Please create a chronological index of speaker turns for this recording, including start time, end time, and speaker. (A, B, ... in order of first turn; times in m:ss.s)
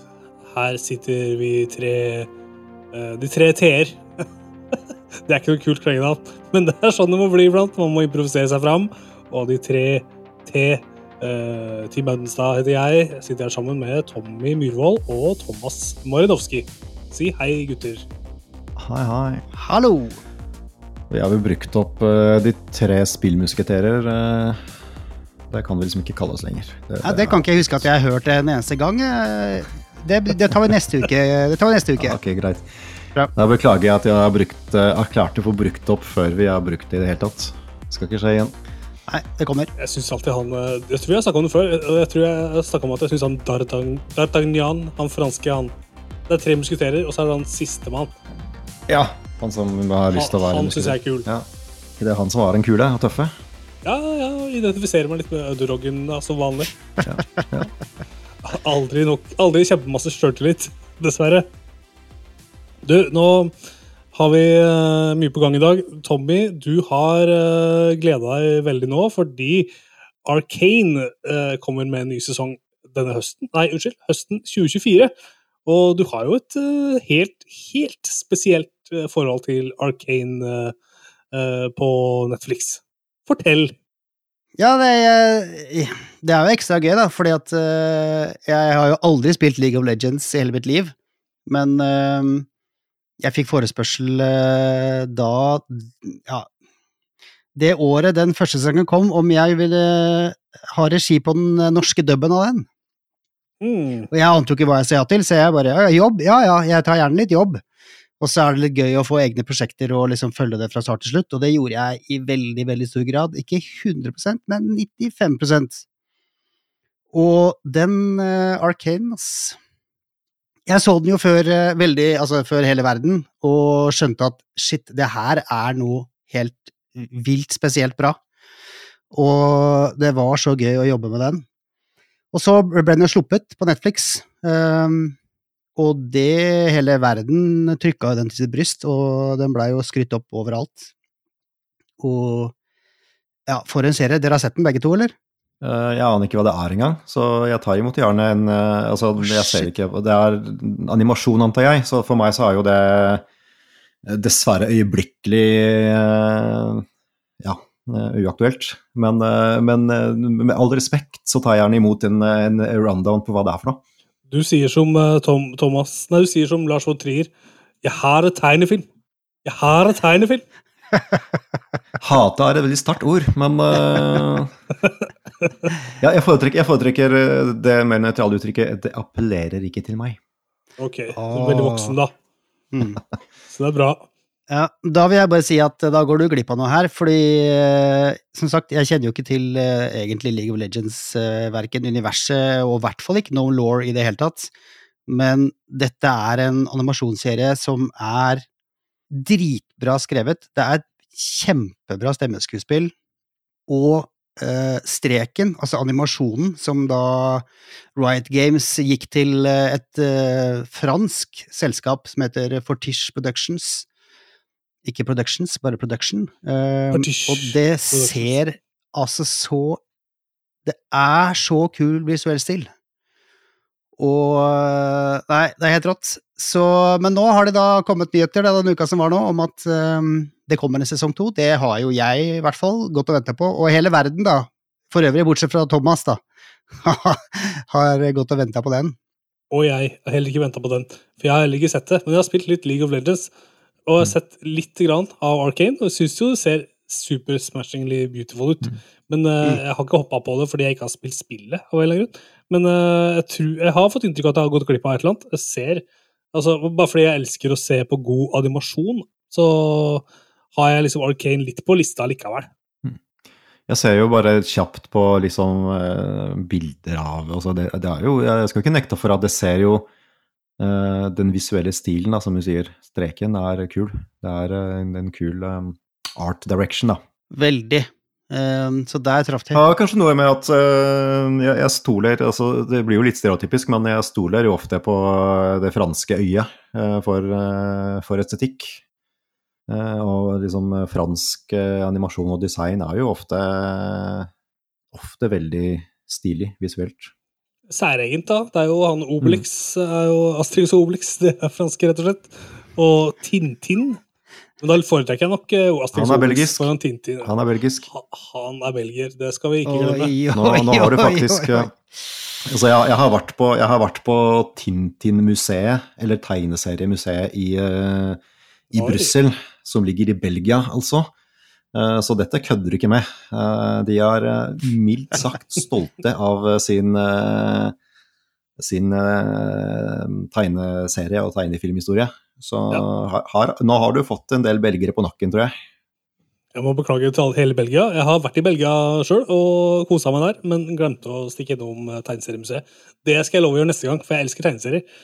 0:00.5-0:02.3 A
0:02.9-0:04.0 A
0:05.3-0:18.0 A
0:18.8-0:19.4 B
0:19.5-0:20.2 C
0:21.1-0:24.6 B
0:25.5-0:27.9 B
0:27.0-0:32.2 C
0:32.0-0:38.5 B
0:39.1-0:39.7 C
0:39.8-0:45.7 A
0:46.3-0:48.1 A
0:48.9-0:51.5 B
0:50.1-0:51.3 A
0:52.0-0:53.4 B
0:53.8-0:56.7 A
0:57.0-0:57.7 B
0:58.4-1:01.5 A
1:02.8-1:03.5 A
1:04.1-1:09.7 A
1:10.2-1:15.1 A
1:15.6-1:20.7 A
1:21.3-1:23.7 A
1:24.6-1:30.9 C
1:31.5-1:32.5 C
1:33.2-1:36.5 C
1:37.5-1:42.6 C
1:43.6-1:44.1 A
1:44.1-1:47.6 C
1:48.2-1:55.8 C
1:57.1-1:59.6 C
2:00.7-2:08.2 C
2:09.1-2:11.4 C
2:12.3-2:15.2 C
2:15.8-2:20.9 C
2:22.0-2:22.5 C
2:23.5-2:25.1 C
2:25.6-2:33.2 B
2:29.2-2:29.7 C
2:34.0-2:36.8 B
2:37.4-2:43.8 B
2:44.3-2:47.3 A
2:47.8-2:48.9 A
2:49.4-2:50.4 A
2:52.0-2:54.5 B
2:55.4-2:55.7 A
2:56.0-3:00.2 B
3:00.8-3:02.1 A
3:01.1-3:02.0 C
3:02.7-3:03.0 C
3:03.5-3:04.1 A
3:04.5-3:14.5 C
3:15.1-3:18.4 C
3:19.1-3:22.9 C
3:23.7-3:33.9 C
3:34.8-3:39.8 C
3:36.9-3:38.4 A
3:40.6-3:42.7 C
3:44.0-3:56.2 C
3:56.8-3:58.9 C
3:59.5-4:03.3 A
4:03.9-4:22.5 A
4:23.7-4:29.9 B
4:30.6-4:37.0 B
4:37.3-4:39.6 C
4:39.5-4:48.8 B
4:49.7-4:54.3 B
4:54.9-4:57.1 B
4:57.7-5:04.0 A
5:04.6-5:07.3 A
5:05.9-5:06.7 B
5:07.2-5:07.9 B
5:07.9-5:10.1 A
5:09.7-5:11.7 C
5:10.3-5:11.7 B
5:12.4-5:18.2 B
5:18.7-5:19.1 A
5:18.7-5:21.1 B
5:21.7-5:27.7 B
5:28.6-5:35.5 B
5:36.5-5:44.8 A